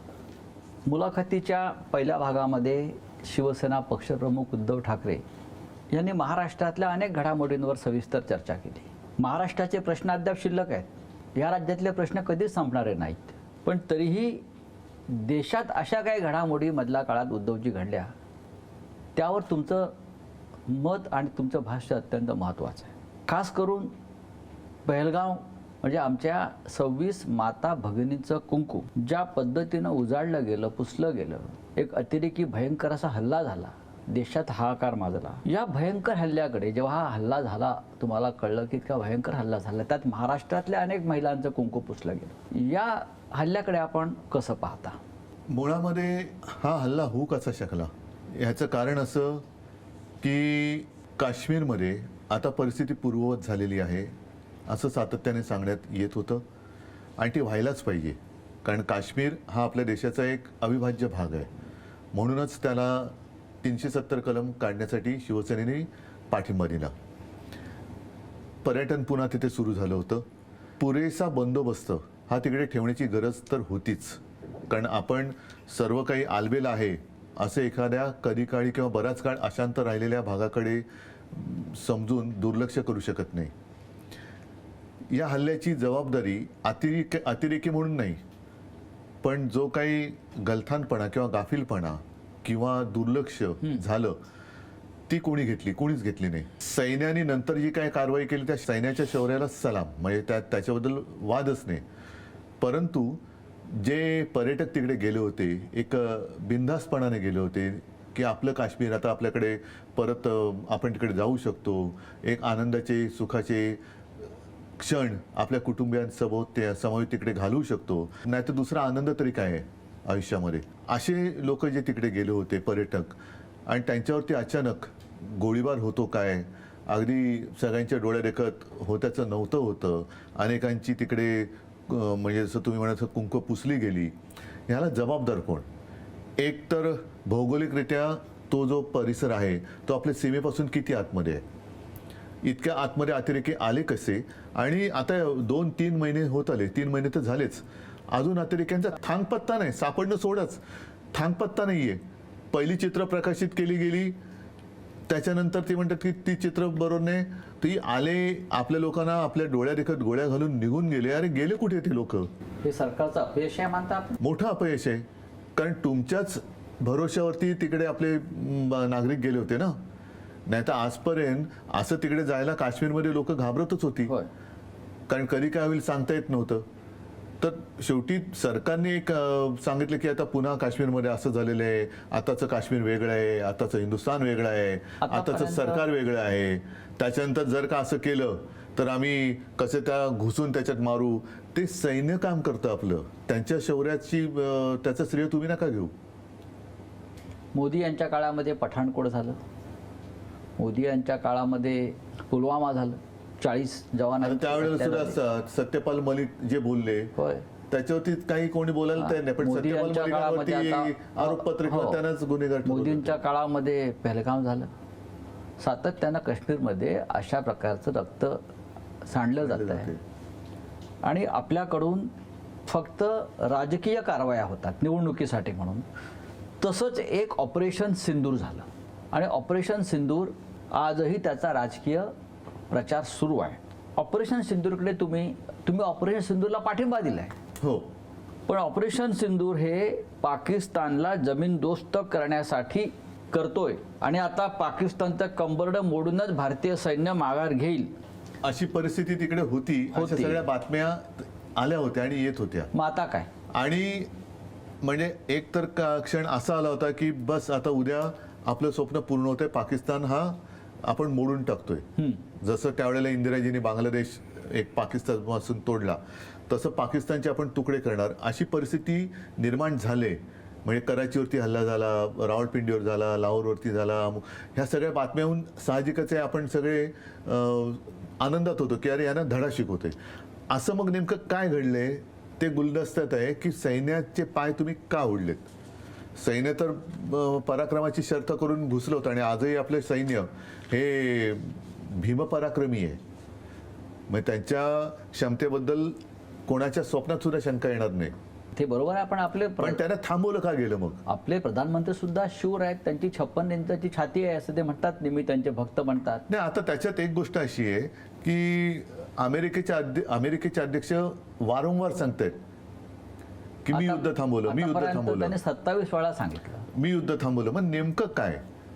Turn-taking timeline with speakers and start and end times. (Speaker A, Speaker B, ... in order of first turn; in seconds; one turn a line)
Speaker A: 0.8-5.2
Speaker A: 5.9-14.4
Speaker A: 15.1-18.1
Speaker A: 19.1-19.9
Speaker A: 20.7-23.9
Speaker A: 24.9-45.0
Speaker B: 45.5-49.4
Speaker B: 50.2-54.1
Speaker B: 54.7-56.4
Speaker B: 57.2-61.5
Speaker B: 62.1-66.9
Speaker B: 68.6-70.2
Speaker B: 70.8-83.5
Speaker B: 85.1-88.2
Speaker B: 89.2-94.2
Speaker B: 95.1-101.8
Speaker B: 102.6-113.8
Speaker B: 114.8-123.1
Speaker B: 123.7-134.1
Speaker B: 134.7-135.6
Speaker B: 136.4-141.4
Speaker B: 142.4-150.6
Speaker B: 151.1-152.0
Speaker B: 152.5-154.1
Speaker B: 155.1-162.3
Speaker A: 162.6-164.2
Speaker B: 164.2-165.0
Speaker B: 165.6-169.7
Speaker B: 170.5-174.1
Speaker B: 175.1-176.6
Speaker B: 177.4-195.9
Speaker A: 185.0-185.8
Speaker A: 197.5-199.4
Speaker A: 200.6-205.2
Speaker B: 204.2-207.1
Speaker A: 207.2-207.4
Speaker B: 207.7-213.2
Speaker A: 209.0-212.0
Speaker A: 212.6-214.7
Speaker A: 215.6-218.4
Speaker A: 219.1-219.9
Speaker B: 219.4-220.0
Speaker A: 221.0-222.1
Speaker A: 222.7-225.8
Speaker A: 226.6-232.1
Speaker A: 232.7-237.3
Speaker B: 237.6-237.9
Speaker A: 238.5-247.9
Speaker B: 248.4-252.7
Speaker A: 249.9-250.4
Speaker A: 252.7-253.3
Speaker B: 253.5-254.1
Speaker B: 254.8-261.9
Speaker B: 262.4-279.9
Speaker B: 280.5-285.4
Speaker B: 286.2-293.0
Speaker B: 294.1-298.1
Speaker A: 298.6-299.8
Speaker B: 299.6-301.0
Speaker A: 301.1-306.2
Speaker B: 306.3-312.4
Speaker B: 313.6-315.3
Speaker A: 313.7-316.6
Speaker B: 316.7-318.4